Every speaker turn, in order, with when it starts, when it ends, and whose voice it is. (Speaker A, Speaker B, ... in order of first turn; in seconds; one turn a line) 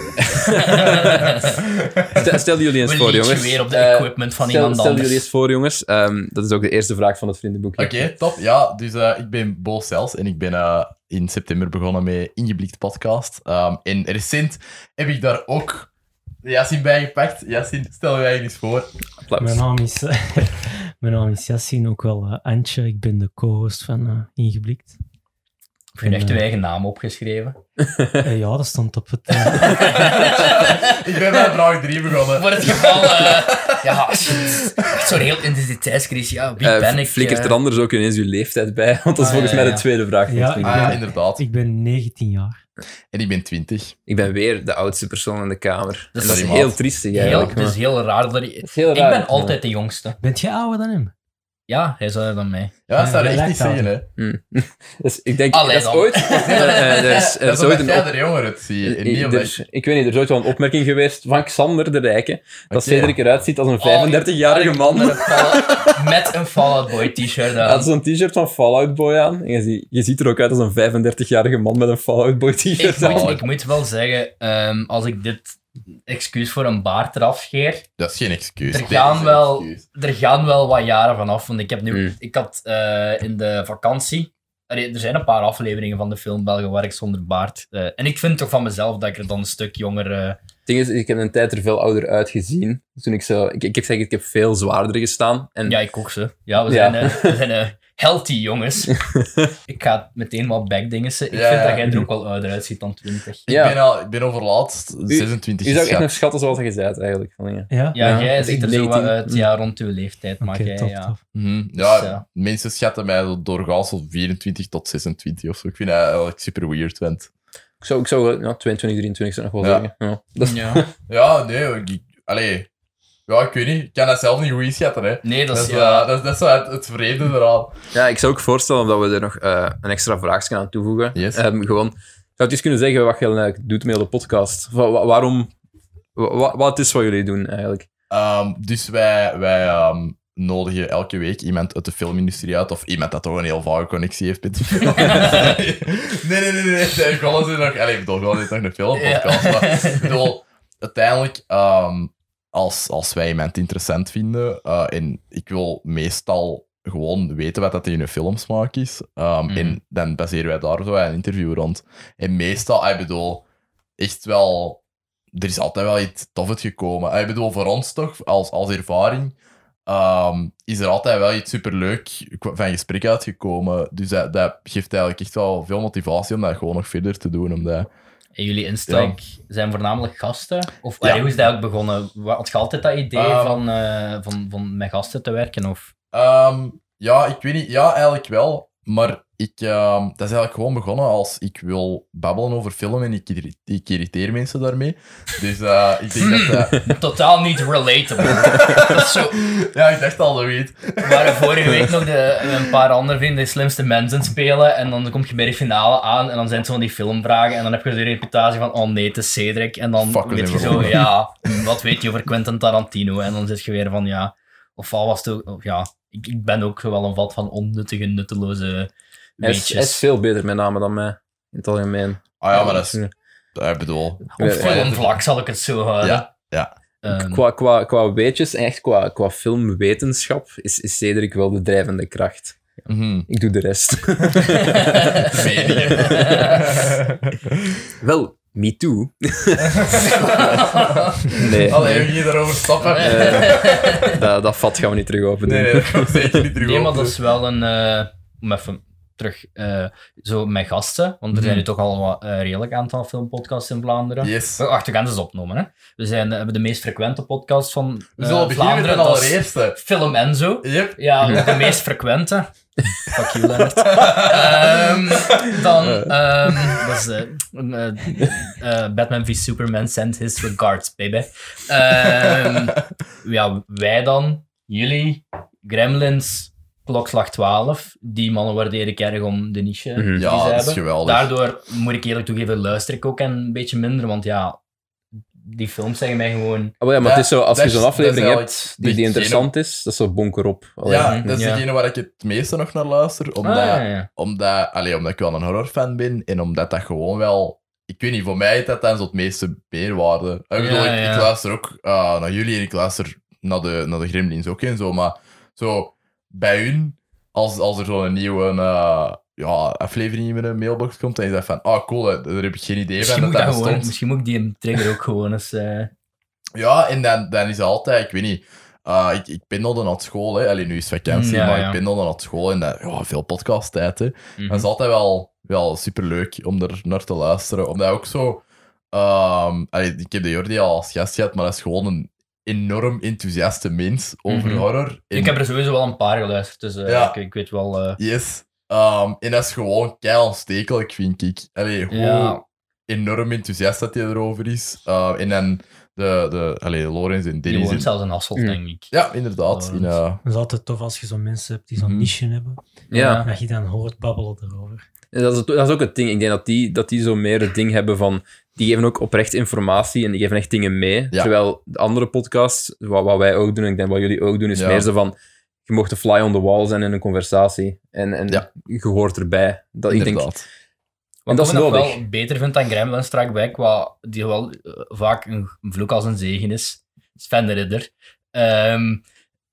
Speaker A: 0.2-1.5
Speaker B: 0.6-1.5
Speaker C: 1.6-2.3
Speaker A: 2.1-8.1
Speaker B: 2.8-5.3
Speaker C: 7.8-15.9
Speaker C: 16.4-18.9
Speaker A: 19.3-19.6
Speaker D: 19.4-25.0
Speaker B: 26.0-27.6
Speaker D: 26.0-26.4
Speaker A: 27.8-28.2
Speaker D: 28.2-30.1
Speaker B: 29.6-31.0
Speaker C: 30.4-35.1
Speaker B: 32.3-37.6
Speaker A: 36.6-41.0
Speaker B: 39.2-39.9
Speaker D: 40.3-42.6
Speaker C: 40.6-41.4
Speaker C: 43.1-44.0
Speaker A: 44.1-47.8
Speaker B: 46.1-50.2
Speaker C: 46.2-47.6
Speaker A: 48.6-49.6
Speaker D: 50.2-51.1
Speaker B: 51.7-52.7
Speaker C: 52.9-54.1
Speaker D: 53.0-53.9
Speaker A: 54.2-58.1
Speaker B: 55.5-57.2
Speaker C: 56.5-59.6
Speaker A: 58.8-66.0
Speaker C: 62.7-63.2
Speaker B: 63.8-67.9
Speaker A: 67.6-73.4
Speaker B: 72.8-77.9
Speaker C: 73.0-73.5
Speaker C: 78.0-79.8
Speaker B: 78.7-90.4
Speaker A: 81.9-82.2
Speaker A: 90.7-95.8
Speaker B: 95.7-99.0
Speaker A: 96.7-97.4
Speaker A: 99.2-99.5
Speaker B: 99.7-103.5
Speaker C: 101.3-102.1
Speaker C: 103.5-106.1
Speaker A: 103.5-103.8
Speaker A: 105.1-109.5
Speaker D: 107.7-108.3
Speaker B: 108.0-111.2
Speaker D: 110.4-111.2
Speaker C: 111.3-117.3
Speaker B: 111.8-112.2
Speaker A: 117.8-120.9
Speaker C: 119.6-119.9
Speaker B: 120.4-120.8
Speaker C: 121.1-122.7
Speaker C: 123.3-127.8
Speaker B: 125.2-126.1
Speaker A: 127.9-135.5
Speaker C: 131.1-131.4
Speaker A: 136.2-137.9
Speaker C: 138.1-163.4
Speaker B: 144.8-145.6
Speaker B: 148.9-150.3
Speaker B: 159.5-159.8
Speaker C: 164.0-164.8
Speaker C: 165.3-169.3
Speaker C: 169.9-177.9
Speaker B: 178.4-185.9
Speaker C: 178.9-179.2
Speaker C: 183.1-183.6
Speaker C: 186.1-196.9
Speaker B: 196.2-199.4
Speaker C: 198.2-201.9
Speaker B: 201.0-220.1
Speaker C: 210.1-211.1
Speaker A: 219.4-223.1
Speaker C: 222.4-223.0
Speaker C: 223.6-225.2
Speaker B: 224.4-226.3
Speaker A: 224.4-224.9
Speaker C: 226.0-226.7
Speaker B: 227.0-227.4
Speaker A: 227.1-232.6
Speaker C: 232.9-233.3
Speaker A: 233.3-236.6
Speaker B: 235.0-235.3
Speaker C: 235.3-237.4
Speaker B: 236.0-236.5
Speaker A: 238.0-240.1
Speaker C: 239.8-244.1
Speaker B: 240.0-241.5
Speaker A: 241.3-242.1
Speaker B: 242.9-244.1
Speaker A: 243.0-246.4
Speaker C: 245.4-247.2
Speaker B: 246.6-262.5
Speaker A: 251.3-251.6
Speaker C: 254.2-254.6
Speaker C: 258.2-259.8
Speaker C: 260.6-261.7
Speaker B: 263.0-284.6
Speaker C: 263.9-266.1
Speaker A: 280.0-280.2
Speaker C: 280.1-281.3
Speaker B: 285.4-286.7
Speaker A: 286.8-291.3
Speaker C: 287.0-289.5
Speaker C: 290.9-313.9
Speaker B: 291.0-291.6
Speaker B: 293.4-294.1
Speaker B: 300.6-301.3
Speaker B: 313.0-315.9
Speaker C: 316.6-335.4
Speaker B: 321.1-321.8
Speaker B: 324.4-324.7
Speaker B: 334.3-338.0
Speaker C: 336.9-337.1
Speaker C: 338.0-347.9
Speaker B: 341.9-342.4
Speaker B: 347.5-348.9
Speaker C: 348.9-350.2
Speaker B: 349.5-350.0
Speaker D: 350.2-352.6
Speaker C: 351.8-352.1
Speaker A: 352.9-353.2
Speaker B: 352.9-353.3
Speaker D: 353.2-354.9
Speaker A: 355.1-365.1
Speaker C: 364.6-364.9
Speaker A: 365.7-370.3
Speaker C: 369.9-370.4
Speaker B: 371.3-379.0
Speaker A: 371.3-372.0